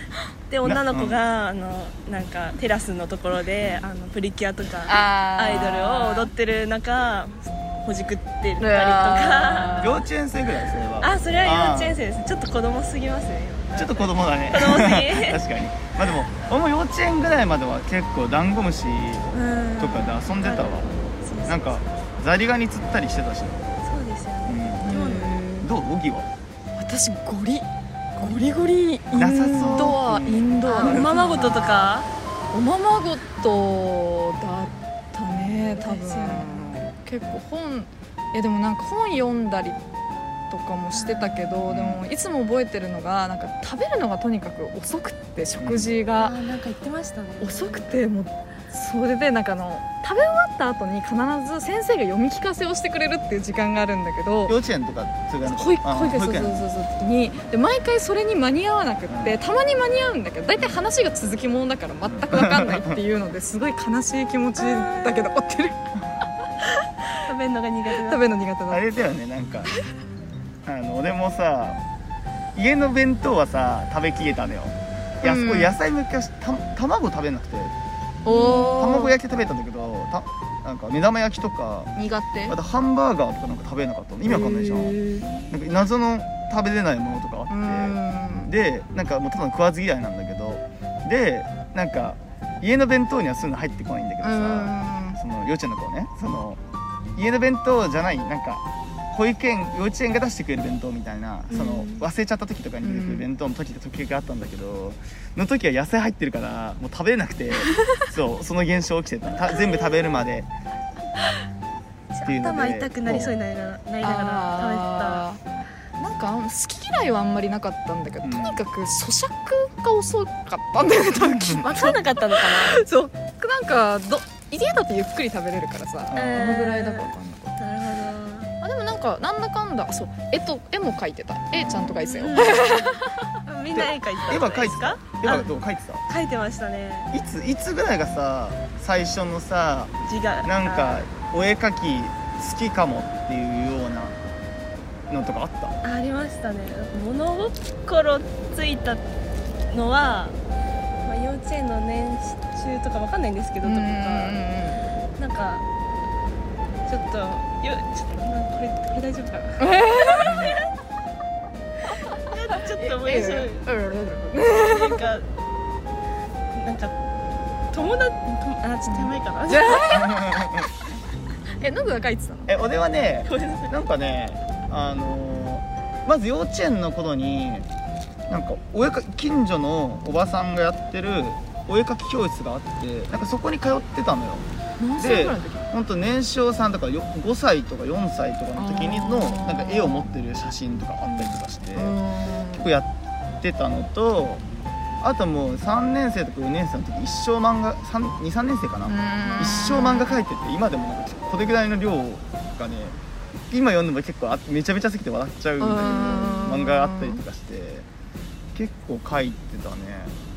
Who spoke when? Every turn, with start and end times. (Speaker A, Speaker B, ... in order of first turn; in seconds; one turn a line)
Speaker A: 0.5-10.0
Speaker B: 0.6-1.2
Speaker C: 4.9-6.3
Speaker C: 8.6-10.0
Speaker B: 9.8-12.0
Speaker A: 11.0-15.4
Speaker B: 13.8-19.3
Speaker A: 19.3-21.8
Speaker B: 19.8-20.9
Speaker B: 21.5-23.6
Speaker A: 23.8-25.4
Speaker B: 24.4-26.3
Speaker C: 24.9-25.7
Speaker C: 26.8-39.8
Speaker B: 29.1-31.4
Speaker A: 29.6-29.9
Speaker A: 30.7-32.1
Speaker A: 35.8-36.8
Speaker C: 40.5-46.3
Speaker A: 40.9-41.6
Speaker B: 41.7-42.0
Speaker B: 45.6-45.9
Speaker A: 46.2-48.1
Speaker C: 47.4-54.6
Speaker B: 54.5-56.6
Speaker C: 55.4-65.9
Speaker B: 59.1-59.4
Speaker B: 60.6-60.9
Speaker B: 62.0-63.0
Speaker A: 64.6-65.3
Speaker A: 67.2-68.3
Speaker C: 68.0-68.9
Speaker B: 68.7-69.7
Speaker B: 70.7-71.8
Speaker B: 72.5-77.7
Speaker C: 75.2-75.8
Speaker C: 78.2-79.2
Speaker A: 78.3-78.8
Speaker B: 78.7-81.9
Speaker C: 82.0-82.6
Speaker B: 82.5-85.0
Speaker C: 84.2-85.3
Speaker B: 85.5-96.6
Speaker C: 87.5-88.5
Speaker C: 94.2-95.2
Speaker B: 97.2-110.5
Speaker A: 101.5-102.0
Speaker C: 102.8-103.3
Speaker A: 109.3-110.2
Speaker A: 112.1-115.2
Speaker B: 112.2-113.4
Speaker C: 114.0-115.4
Speaker C: 116.0-127.6
Speaker B: 118.2-118.6
Speaker A: 121.3-122.8
Speaker B: 126.1-126.6
Speaker A: 126.1-128.5
Speaker C: 128.6-133.3
Speaker B: 131.5-132.1
Speaker A: 132.0-135.5
Speaker B: 133.7-136.0
Speaker A: 136.1-137.1
Speaker B: 137.1-139.9
Speaker A: 140.1-141.1
Speaker B: 140.4-144.2
Speaker B: 145.1-145.8
Speaker A: 145.8-149.0
Speaker A: 149.7-150.4
Speaker A: 151.1-154.4
Speaker C: 153.6-154.8
Speaker A: 155.2-155.7
Speaker A: 156.9-160.7
Speaker C: 159.6-160.3
Speaker B: 160.2-160.6
Speaker A: 162.3-163.7
Speaker C: 162.8-165.0
Speaker A: 164.6-165.3
Speaker A: 166.5-166.9
Speaker A: 167.7-170.1
Speaker C: 168.9-170.5
Speaker B: 169.9-170.7
Speaker C: 171.6-172.6
Speaker B: 172.5-177.7
Speaker A: 173.2-173.7
Speaker B: 178.3-184.5
Speaker C: 184.8-185.7
Speaker B: 185.0-191.9
Speaker C: 188.6-190.1
Speaker A: 191.1-191.4
Speaker C: 191.8-192.7
Speaker B: 192.6-192.9
Speaker B: 193.4-194.4
Speaker B: 195.0-203.0
Speaker C: 198.8-200.2
Speaker B: 203.5-207.9
Speaker C: 205.6-207.2
Speaker B: 208.5-210.2